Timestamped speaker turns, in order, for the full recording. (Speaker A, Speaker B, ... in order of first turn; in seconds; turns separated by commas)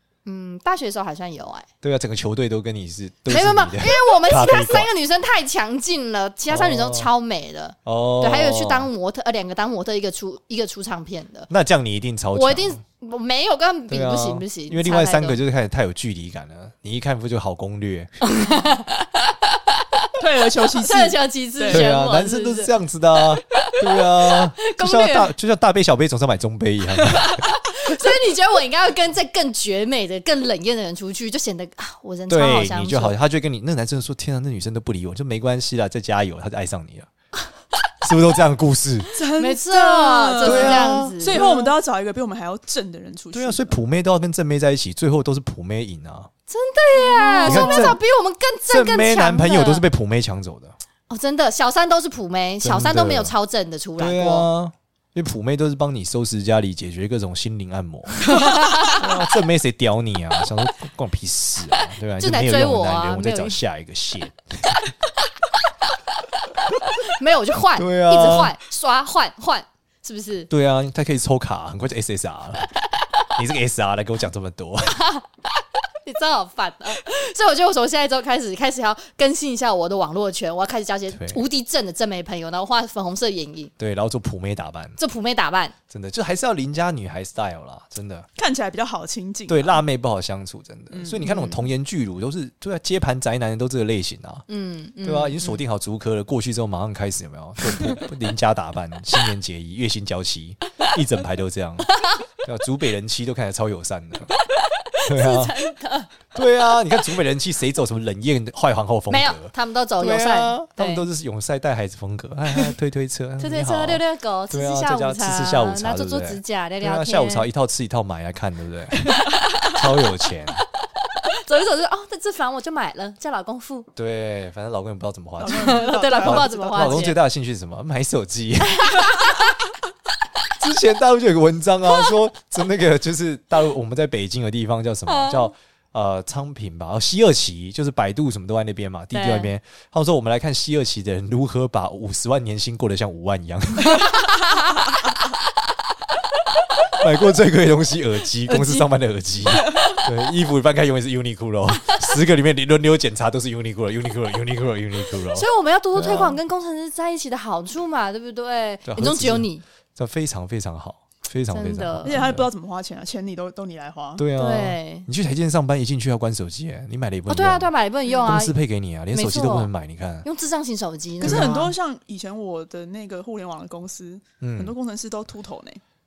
Speaker A: 0.2-1.7, Speaker B: 1.8-4.9, Speaker A: 3.3-11.5, Speaker B: 6.5-7.1, Speaker B: 7.8-8.9, Speaker B: 11.5-12.8, Speaker A: 12.3-15.4, Speaker B: 13.9-18.1, Speaker A: 18.2-20.1, Speaker C: 20.2-21.8, Speaker A: 20.8-22.7, Speaker B: 21.7-28.1, Speaker A: 23.3-25.3, Speaker A: 26.9-33.1, Speaker B: 32.3-37.1, Speaker B: 38.0-39.1, Speaker C: 39.1-43.8, Speaker A: 39.4-41.7, Speaker B: 40.4-41.5, Speaker B: 43.3-46.3, Speaker A: 46.5-49.8, Speaker C: 47.0-47.9, Speaker B: 47.4-48.0, Speaker B: 48.7-50.8, Speaker A: 51.1-54.5, Speaker B: 52.6-53.3, Speaker B: 54.0-58.3, Speaker A: 58.3-59.0, Speaker B: 58.9-64.7, Speaker A: 62.2-63.6, Speaker A: 66.8-70.5, Speaker B: 67.8-68.5, Speaker B: 70.5-72.7, Speaker B: 73.3-75.0, Speaker A: 75.0-83.7, Speaker B: 81.1-81.4, Speaker B: 83.8-85.0, Speaker A: 85.0-85.7, Speaker B: 85.9-88.3, Speaker C: 88.4-89.8, Speaker B: 89.5-94.4, Speaker C: 90.9-91.3, Speaker A: 91.2-91.6, Speaker A: 94.5-95.5, Speaker B: 95.0-104.3, Speaker A: 104.8-106.1, Speaker B: 105.1-105.5, Speaker B: 106.3-119.1, Speaker A: 109.1-111.0, Speaker A: 113.4-117.5, Speaker B: 119.7-120.6, Speaker A: 121.3-123.9, Speaker B: 124.0-129.1, Speaker C: 125.4-127.1, Speaker A: 125.5-127.2, Speaker A: 128.8-129.5, Speaker B: 130.6-144.2, Speaker A: 135.1-135.5, Speaker A: 139.1-139.5, Speaker A: 143.8-144.9, Speaker B: 146.9-156.4, Speaker A: 148.4-148.9, Speaker A: 155.3-159.6, Speaker B: 158.8-162.5, Speaker A: 161.5-162.3, Speaker C: 162.0-164.2, Speaker B: 164.2-167.7, Speaker A: 164.3-165.1, Speaker A: 167.3-168.5, Speaker B: 168.2-170.2, Speaker A: 169.1-169.7, Speaker A: 170.2-171.7, Speaker B: 171.2-171.6, Speaker C: 171.2-175.8, Speaker B: 174.4-174.7